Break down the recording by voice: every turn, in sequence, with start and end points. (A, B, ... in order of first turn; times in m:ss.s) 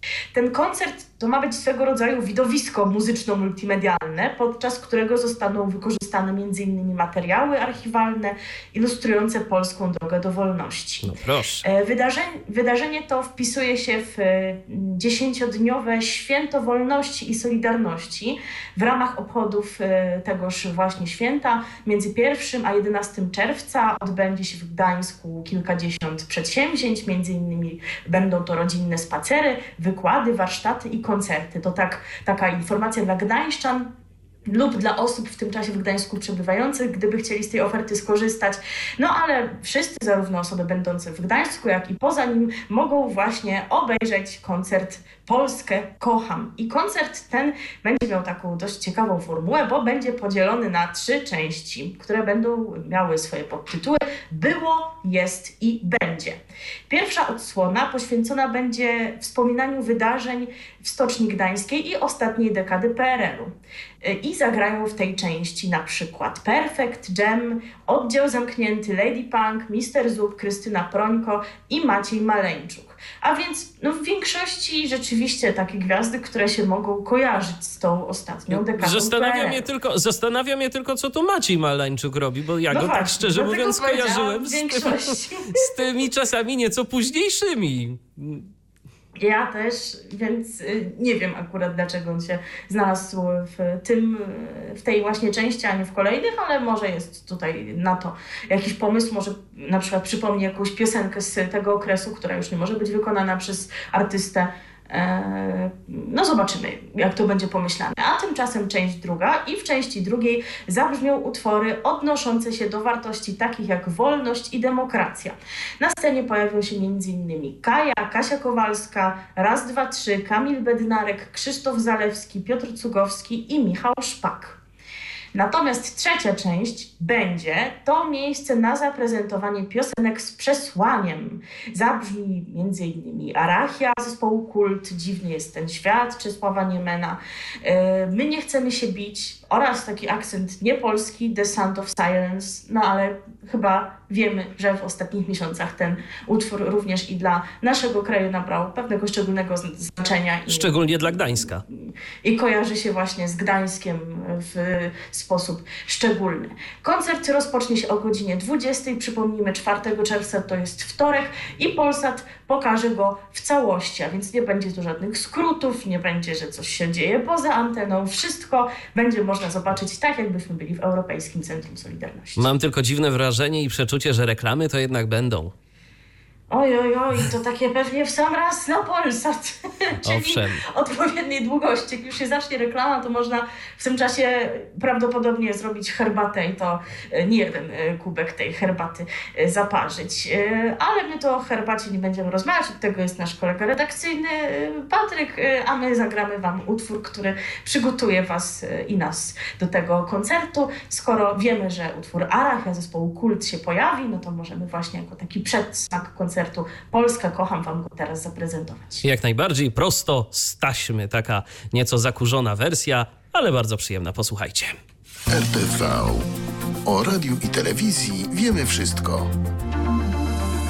0:00.3-0:33.9 A
0:11.0-0:11.6 B
0:34.5-1:19.6 A
1:18.5-1:25.0 B
1:22.7-1:26.0 A
1:25.5-1:28.5 B
1:29.2-2:04.6 A
2:05.3-2:30.7 A
2:30.5-2:31.6 B
2:32.2-2:52.5 A
2:52.4-2:55.5 B
2:56.5-3:29.0 A
3:00.0-3:00.6 B
3:29.0-3:34.8 B
3:35.3-3:36.3 C
3:36.9-3:39.3 C